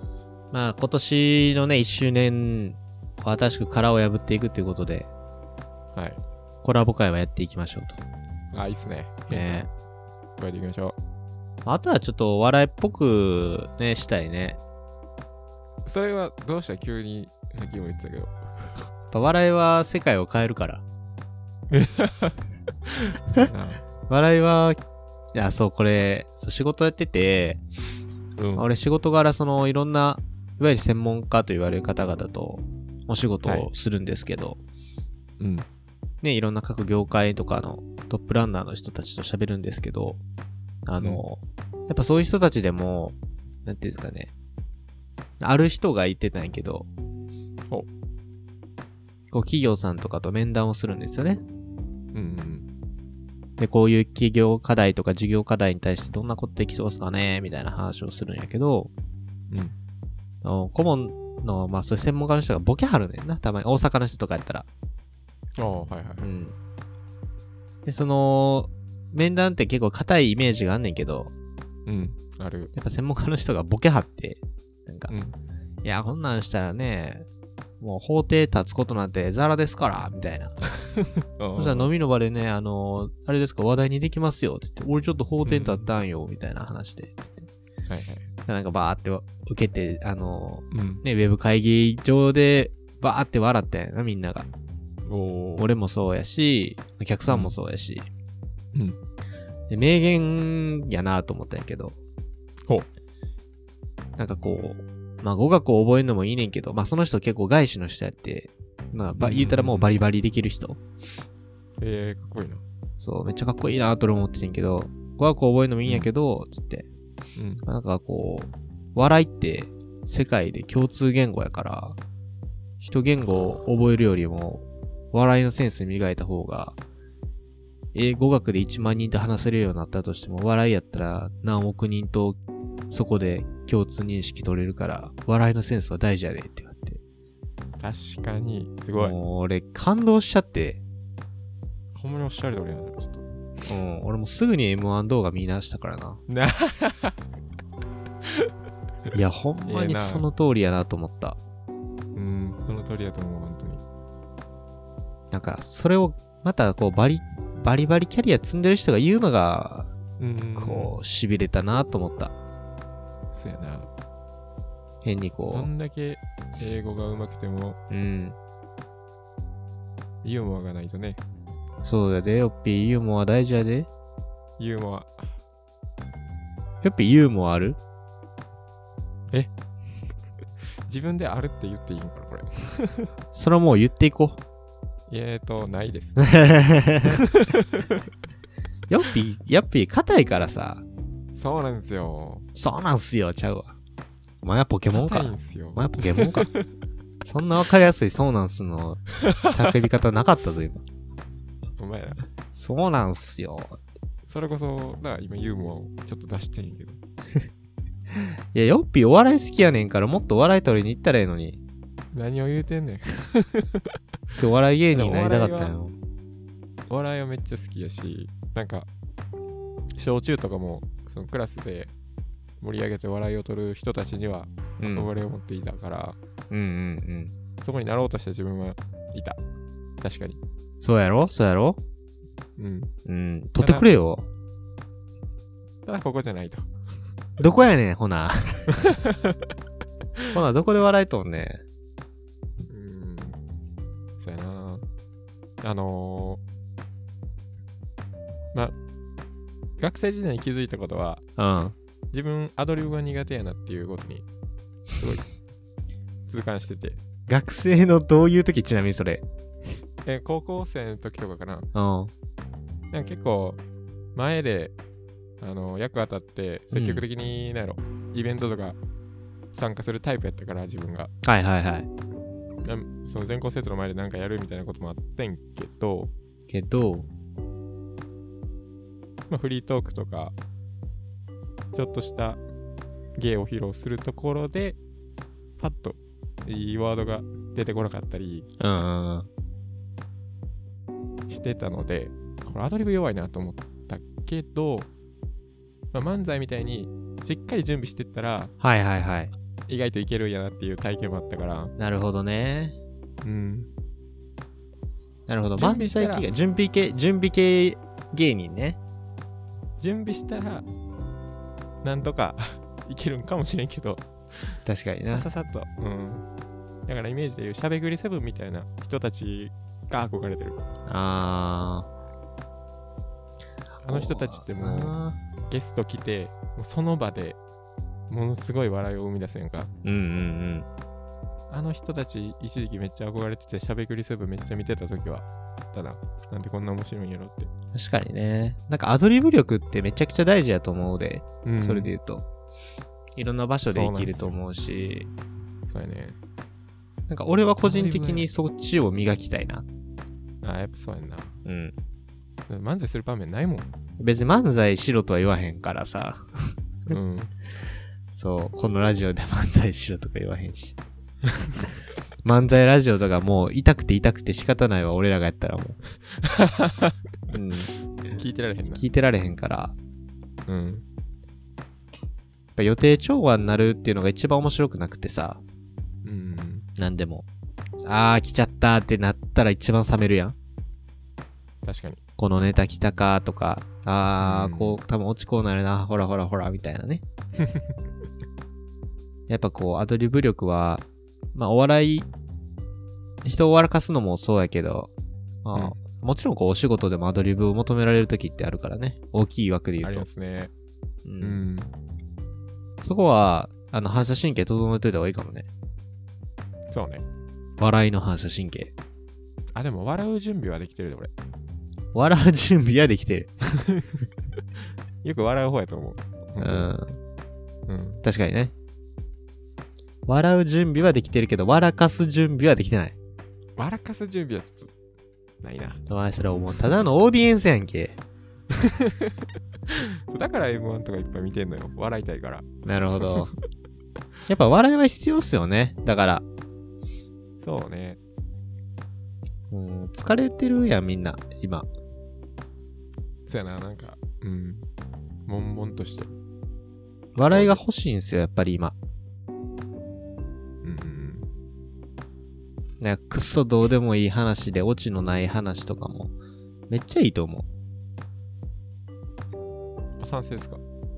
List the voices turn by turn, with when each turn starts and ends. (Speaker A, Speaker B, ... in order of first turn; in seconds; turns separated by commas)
Speaker A: 0.5-5.1, Speaker B: 5.9-6.2, Speaker A: 6.6-8.0, Speaker B: 8.5-9.7, Speaker A: 9.3-9.7, Speaker B: 10.4-11.0, Speaker A: 11.6-14.6, Speaker B: 15.8-18.9, Speaker A: 19.1-20.8, Speaker B: 21.7-23.8, Speaker A: 24.1-24.8, Speaker A: 25.3-27.6, Speaker B: 28.4-28.7, Speaker A: 28.6-34.6, Speaker B: 33.4-33.7, Speaker B: 35.4-35.7, Speaker A: 36.2-40.2, Speaker A: 40.9-44.3, Speaker A: 45.4-46.9, Speaker A: 49.3-51.4, Speaker B: 52.1-52.7, Speaker A: 53.6-58.9, Speaker B: 59.5-59.7, Speaker A: 60.4-64.7, Speaker B: 65.6-66.2, Speaker A: 66.2-66.5, Speaker A: 67.8-71.3, Speaker B: 71.8-72.7, Speaker A: 72.7-75.1, Speaker B: 75.1-75.4, Speaker A: 75.8-77.2, Speaker A: 77.8-80.6, Speaker B: 80.8-81.9, Speaker A: 81.6-87.5, Speaker B: 85.4-85.9, Speaker B: 87.9-88.3, Speaker A: 88.5-94.5, Speaker B: 90.7-91.0, Speaker B: 95.0-95.7, Speaker A: 95.6-98.1, Speaker B: 97.2-97.5, Speaker B: 98.7-99.0, Speaker A: 99.7-102.0, Speaker A: 104.2-110.8, Speaker B: 109.2-109.9, Speaker B: 111.8-112.6, Speaker A: 113.0-116.9, Speaker B: 115.8-116.1, Speaker B: 117.3-117.6, Speaker A: 117.6-122.0, Speaker A: 122.8-126.8, Speaker A: 127.9-132.4, Speaker A: 132.9-137.0, Speaker B: 137.8-139.2, Speaker A: 138.9-140.8, Speaker B: 141.9-143.2, Speaker A: 143.7-146.2, Speaker B: 146.3-147.2, Speaker A: 149.1-151.4, Speaker B: 149.7-150.2, Speaker B: 152.1-153.8, Speaker A: 155.3-159.9, Speaker B: 160.2-161.0, Speaker A: 160.6-162.3, Speaker B: 163.3-163.9, Speaker A: 165.0-165.7, Speaker B: 165.5-167.8, Speaker A: 167.9-168.4, Speaker B: 170.2-171.2, Speaker A: 171.8-173.9, Speaker B: 174.6-175.4, Speaker A: 176.8-177.8, Speaker B: 180.8-183.1, Speaker A: 183.3-184.4, Speaker B: 185.1-186.3, Speaker A: 186.2-187.2, Speaker B: 187.0-188.0, Speaker A: 188.9-190.8, Speaker B: 191.3-192.5, Speaker A: 192.5-193.8, Speaker A: 194.4-196.5, Speaker B: 194.9-196.7, Speaker A: 197.2-200.8, Speaker B: 199.2-199.6, Speaker B: 201.8-202.2, Speaker A: 202.5-203.8, Speaker B: 204.3-207.0, Speaker A: 208.1-211.6, Speaker B: 212.1-213.9, Speaker A: 214.4-215.9, Speaker B: 214.9-215.7, Speaker B: 216.9-218.9, Speaker B: 220.0-221.9, Speaker B: 222.6-226.2, Speaker A: 224.8-225.1, Speaker A: 226.5-227.3, Speaker B: 227.6-229.4, Speaker B: 230.0-230.4, Speaker A: 230.8-231.8, Speaker B: 232.6-232.9, Speaker A: 233.1-234.3, Speaker B: 233.6-233.9, Speaker B: 235.8-236.7, Speaker A: 237.4-238.7, Speaker B: 238.7-239.4, Speaker A: 240.3-241.6, Speaker B: 242.7-243.4, Speaker B: 244.2-244.8, Speaker B: 245.6-246.4, Speaker B: 249.8-251.2, Speaker A: 251.4-251.7, Speaker B: 252.1-254.2, Speaker B: 254.9-255.2, Speaker B: 256.3-257.0, Speaker A: 257.3-259.2, Speaker B: 260.0-261.7, Speaker A: 261.7-262.1, Speaker B: 262.9-263.6, Speaker B: 264.1-264.7, Speaker B: 265.4-268.8, Speaker A: 266.7-267.0, Speaker B: 269.5-271.1, Speaker A: 271.2-271.9, Speaker B: 272.6-276.1, Speaker A: 276.5-277.1, Speaker B: 279.3-280.4, Speaker B: 281.7-282.4, Speaker B: 283.1-284.8, Speaker B: 285.6-288.5, Speaker A: 288.6-289.3, Speaker B: 291.3-294.9, Speaker B: 295.9-298.5, Speaker A: 298.6-299.3, Speaker B: 299.7-301.7, Speaker A: 301.8-302.8, Speaker B: 303.2-303.7, Speaker A: 305.3-308.8, Speaker B: 305.6-306.3, Speaker B: 309.8-310.6, Speaker B: 311.8-316.3, Speaker A: 314.6-315.3, Speaker B: 316.9-320.6, Speaker A: 320.9-321.9, Speaker A: 323.8-325.2, Speaker B: 323.8-327.4, Speaker B: 328.1-329.7, Speaker A: 329.8-330.7, Speaker B: 331.5-337.5, Speaker A: 337.7-342.3, Speaker B: 341.4-341.9, Speaker A: 343.1-345.1, Speaker B: 343.7-344.4, Speaker B: 345.6-346.2, Speaker A: 347.1-349.6, Speaker B: 347.6-348.3, Speaker B: 350.4-351.4, Speaker A: 351.4-351.7, Speaker B: 352.5-353.7, Speaker A: 354.0-356.3, Speaker B: 356.9-357.3, Speaker A: 358.1-360.8, Speaker A: 362.2-365.8, Speaker B: 366.2-367.0, Speaker A: 367.3-367.7, Speaker B: 368.1-368.8, Speaker A: 368.8-369.7, Speaker B: 370.5-370.8, Speaker A: 372.6-375.4, Speaker B: 376.0-376.7, Speaker A: 376.8-377.2, Speaker A: 377.8-380.4, Speaker B: 381.6-382.0, Speaker A: 382.2-387.0, Speaker B: 384.2-384.8, Speaker B: 387.4-387.7, Speaker A: 389.3-392.1, Speaker A: 393.2-394.9, Speaker A: 395.4-400.1, Speaker B: 399.8-400.5, Speaker A: 401.0-401.4, Speaker B: 401.2-401.7, Speaker A: 402.8-405.5, Speaker B: 406.7-407.0, Speaker A: 407.6-408.7, Speaker B: 409.5-411.1, Speaker A: 411.9-413.3, Speaker B: 413.5-414.0, Speaker B: 415.0-416.7, Speaker A: 416.4-417.0, Speaker B: 417.7-418.0, Speaker A: 418.0-418.5, Speaker A: 420.1-422.9, Speaker B: 423.6-424.7, Speaker B: 425.4-425.8, Speaker A: 425.9-428.0, Speaker B: 428.5-429.2, Speaker B: 429.7-433.3, Speaker A: 432.6-433.3, Speaker A: 434.3-436.2, Speaker B: 437.4-438.0, Speaker A: 439.5-441.7, Speaker B: 443.3-444.7, Speaker B: 445.3-446.1, Speaker A: 447.1-448.8, Speaker B: 447.3-447.6, Speaker B: 450.6-451.3, Speaker A: 452.8-456.1, Speaker A: 456.7-457.5, Speaker B: 460.0-460.6